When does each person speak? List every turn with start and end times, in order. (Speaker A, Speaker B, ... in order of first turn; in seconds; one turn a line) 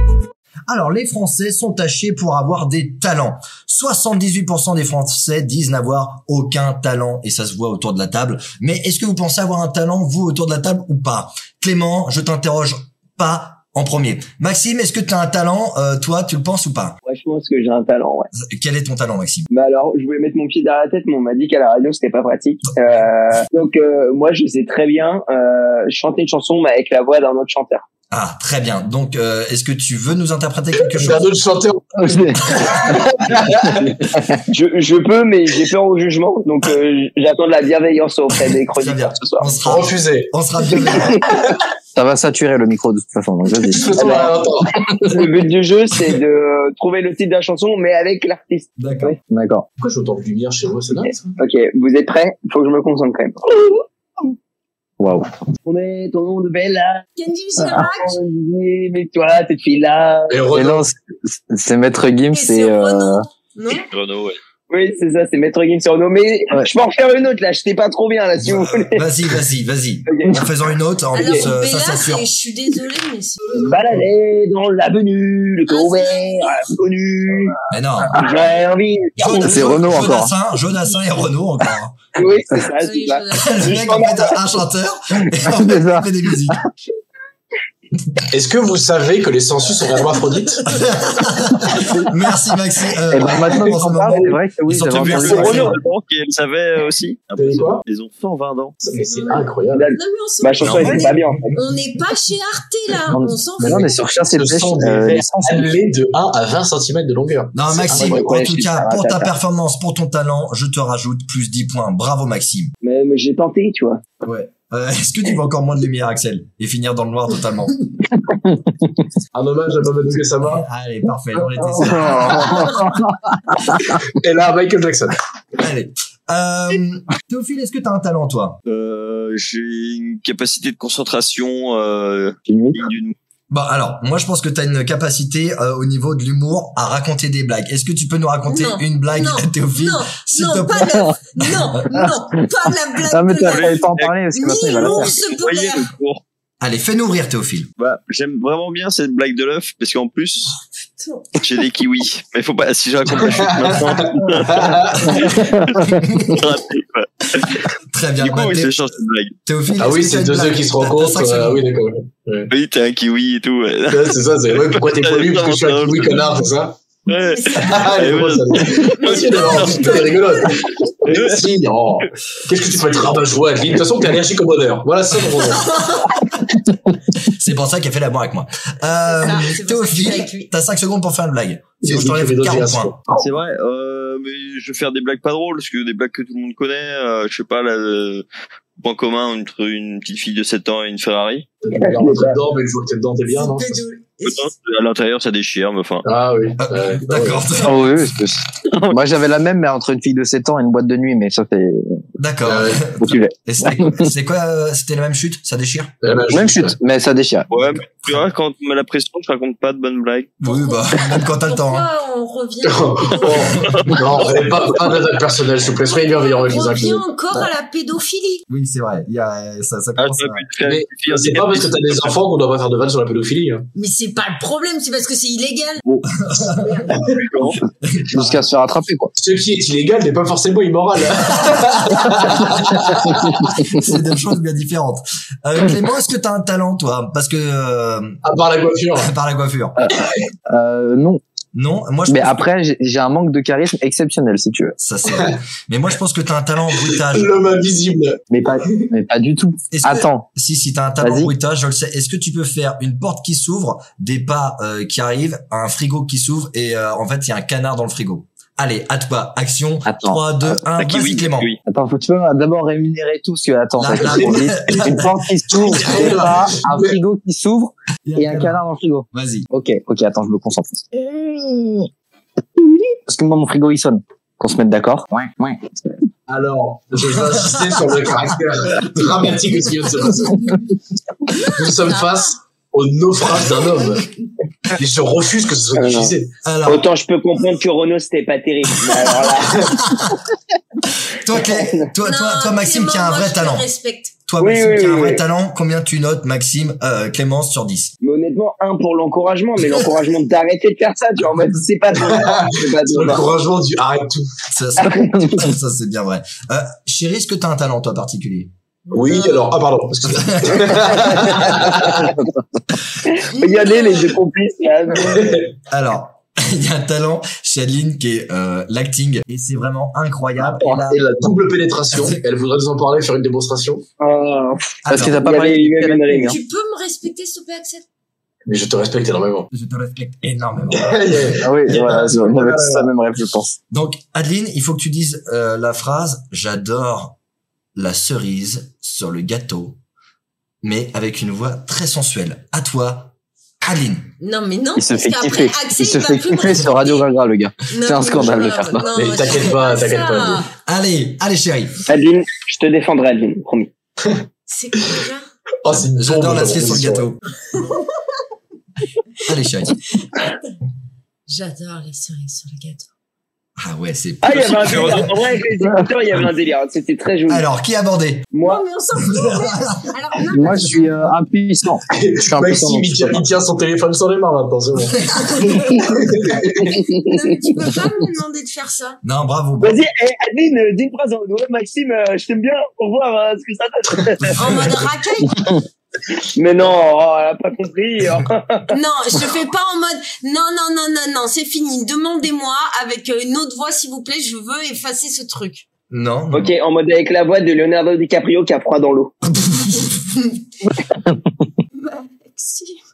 Speaker A: 0.7-17.0
Speaker B: 17.1-18.3
Speaker A: 18.3-19.5
Speaker B: 19.5-27.8
Speaker A: 28.1-31.3
Speaker C: 30.9-32.6
Speaker D: 31.9-34.4
Speaker B: 34.5-39.6
Speaker A: 38.8-41.3
Speaker C: 39.6-40.3
Speaker B: 40.9-41.3
Speaker D: 42.0-44.3
Speaker C: 43.7-44.7
Speaker B: 44.0-44.3
Speaker B: 45.0-49.2
Speaker A: 48.8-49.2
Speaker D: 49.2-49.7
Speaker C: 49.8-51.4
Speaker B: 51.4-53.8
Speaker D: 55.0-55.3
Speaker B: 55.6-57.1
Speaker E: 57.2-58.2
Speaker B: 57.8-60.5
Speaker C: 60.3-60.9
Speaker D: 60.5-63.3
Speaker E: 62.3-63.9
Speaker F: 63.9-64.4
Speaker B: 64.7-69.0
Speaker A: 68.4-72.3
Speaker B: 70.1-70.4
Speaker E: 71.1-73.7
Speaker B: 73.5-77.6
Speaker E: 75.7-76.7
Speaker A: 77.7-78.2
Speaker B: 78.1-79.9
Speaker A: 79.2-82.0
Speaker D: 79.4-80.3
Speaker B: 82.2-84.4
Speaker E: 82.8-83.7
Speaker A: 83.3-86.6
Speaker D: 85.4-86.6
Speaker C: 88.3-90.6
Speaker A: 90.7-95.7
Speaker D: 93.1-95.8
Speaker F: 94.9-98.8
Speaker B: 95.3-95.8
Speaker C: 97.4-97.8
Speaker C: 98.8-99.9
Speaker E: 99.0-104.0
Speaker B: 99.7-101.5
Speaker A: 100.6-101.6
Speaker D: 103.1-105.7
Speaker C: 103.6-108.3
Speaker A: 107.5-112.7
Speaker B: 107.9-109.3
Speaker B: 112.8-114.0
Speaker A: 114.2-117.7
Speaker C: 119.3-120.7
Speaker A: 120.5-122.9
Speaker D: 121.6-123.7
Speaker C: 124.2-125.2
Speaker A: 125.6-128.6
Speaker F: 128.7-133.2
Speaker D: 132.5-132.9
Speaker A: 133.5-141.9
Speaker E: 138.5-143.8
Speaker D: 143.1-145.2
Speaker F: 143.5-144.2
Speaker E: 144.3-145.9
Speaker F: 144.8-146.2
Speaker A: 146.6-147.7
Speaker F: 147.8-150.6
Speaker E: 151.0-151.3
Speaker F: 151.4-157.7
Speaker C: 153.2-155.1
Speaker A: 155.0-155.2
Speaker D: 155.2-156.0
Speaker A: 156.0-156.4
Speaker A: 157.4-158.8
Speaker F: 158.2-159.4
Speaker A: 159.5-161.7
Speaker C: 159.8-162.5
Speaker F: 162.5-166.4
Speaker C: 163.9-166.8
Speaker F: 167.1-170.1
Speaker E: 167.2-167.9
Speaker C: 167.6-175.7
Speaker E: 168.8-170.6
Speaker F: 171.0-171.4
Speaker A: 175.5-176.2
Speaker A: 177.2-182.9
Speaker E: 179.1-180.5
Speaker C: 181.8-183.2
Speaker F: 183.1-188.2
Speaker F: 188.8-191.5
Speaker C: 191.6-193.9
Speaker B: 191.7-192.4
Speaker E: 193.3-194.5
Speaker F: 194.2-196.1
Speaker C: 196.1-197.5
Speaker A: 196.6-198.0
Speaker D: 197.6-202.0
Speaker F: 198.7-199.0
Speaker A: 202.2-205.9
Speaker C: 202.4-202.9
Speaker D: 202.9-204.1
Speaker C: 206.0-206.8
Speaker D: 206.3-207.5
Speaker F: 207.5-210.3
Speaker A: 210.4-211.9
Speaker E: 210.5-213.4
Speaker C: 212.7-217.1
Speaker F: 213.2-214.0
Speaker A: 213.6-213.9
Speaker E: 215.8-218.4
Speaker A: 218.5-220.5
Speaker F: 220.0-222.2
Speaker C: 220.6-223.7
Speaker E: 223.8-225.8
Speaker A: 226.1-226.9
Speaker E: 226.6-227.0
Speaker F: 227.1-227.6
Speaker A: 227.8-228.4
Speaker D: 228.1-229.1
Speaker C: 229.2-233.2
Speaker A: 231.2-232.5
Speaker D: 233.1-233.9
Speaker A: 233.4-238.2
Speaker C: 238.2-239.1
Speaker A: 239.0-239.8
Speaker D: 240.5-241.2
Speaker A: 241.5-242.4
Speaker D: 242.1-244.8
Speaker A: 244.8-247.3
Speaker C: 246.8-248.9
Speaker D: 248.3-250.3
Speaker A: 249.7-261.5
Speaker D: 251.0-251.3
Speaker D: 259.9-260.6
Speaker F: 260.8-261.6
Speaker D: 261.7-271.9
Speaker A: 263.8-266.3
Speaker C: 264.0-267.0
Speaker A: 268.1-268.6
Speaker A: 269.1-269.5
Speaker D: 272.6-275.6
Speaker C: 276.3-280.4
Speaker A: 277.0-278.1
Speaker A: 278.8-279.2
Speaker E: 281.3-282.4
Speaker C: 281.5-284.1
Speaker C: 284.8-286.3
Speaker B: 285.8-286.1
Speaker A: 286.4-286.9
Speaker B: 286.6-289.7
Speaker A: 289.6-290.2
Speaker A: 291.0-293.7
Speaker B: 291.3-291.9
Speaker E: 292.0-294.1
Speaker A: 294.3-297.9
Speaker B: 294.4-295.2
Speaker B: 298.0-303.3
Speaker C: 302.0-304.4
Speaker A: 304.5-308.5
Speaker D: 304.9-305.5
Speaker E: 308.9-309.5
Speaker C: 308.9-312.1
Speaker A: 310.1-311.1
Speaker B: 313.1-315.4
Speaker E: 313.3-314.2
Speaker C: 315.0-315.5
Speaker A: 315.7-321.0
Speaker D: 320.5-320.9
Speaker C: 320.9-323.9
Speaker A: 321.9-322.2
Speaker B: 324.0-326.4
Speaker A: 324.9-325.2
Speaker D: 324.9-326.4
Speaker E: 326.2-327.8
Speaker C: 328.5-329.5
Speaker A: 329.5-331.4
Speaker C: 330.7-332.9
Speaker D: 331.4-333.6
Speaker A: 333.7-337.2
Speaker A: 337.8-339.8
Speaker A: 340.6-344.1
Speaker E: 344.2-347.1
Speaker D: 344.8-348.9
Speaker E: 347.7-350.5
Speaker C: 348.9-350.5
Speaker A: 350.6-351.8
Speaker B: 351.9-353.7
Speaker E: 354.5-355.3
Speaker C: 355.6-357.1
Speaker A: 355.7-357.2
Speaker A: 359.2-359.8
Speaker E: 361.3-362.9
Speaker A: 363.6-365.1
Speaker B: 364.2-367.4
Speaker F: 364.3-365.1
Speaker D: 365.6-365.9
Speaker A: 367.3-368.3
Speaker B: 368.3-368.6
Speaker E: 368.4-371.1
Speaker A: 369.1-369.9
Speaker D: 370.3-373.2
Speaker C: 371.9-375.0
Speaker A: 375.1-375.5
Speaker E: 375.4-375.8
Speaker C: 375.8-376.8
Speaker B: 376.8-377.2
Speaker E: 377.0-379.0
Speaker A: 379.0-379.8
Speaker B: 379.6-384.4
Speaker A: 384.4-384.7
Speaker E: 384.4-385.5
Speaker B: 386.4-388.7
Speaker E: 388.7-395.6
Speaker A: 395.9-396.5
Speaker B: 396.3-399.1
Speaker A: 399.3-400.3
Speaker E: 401.8-402.8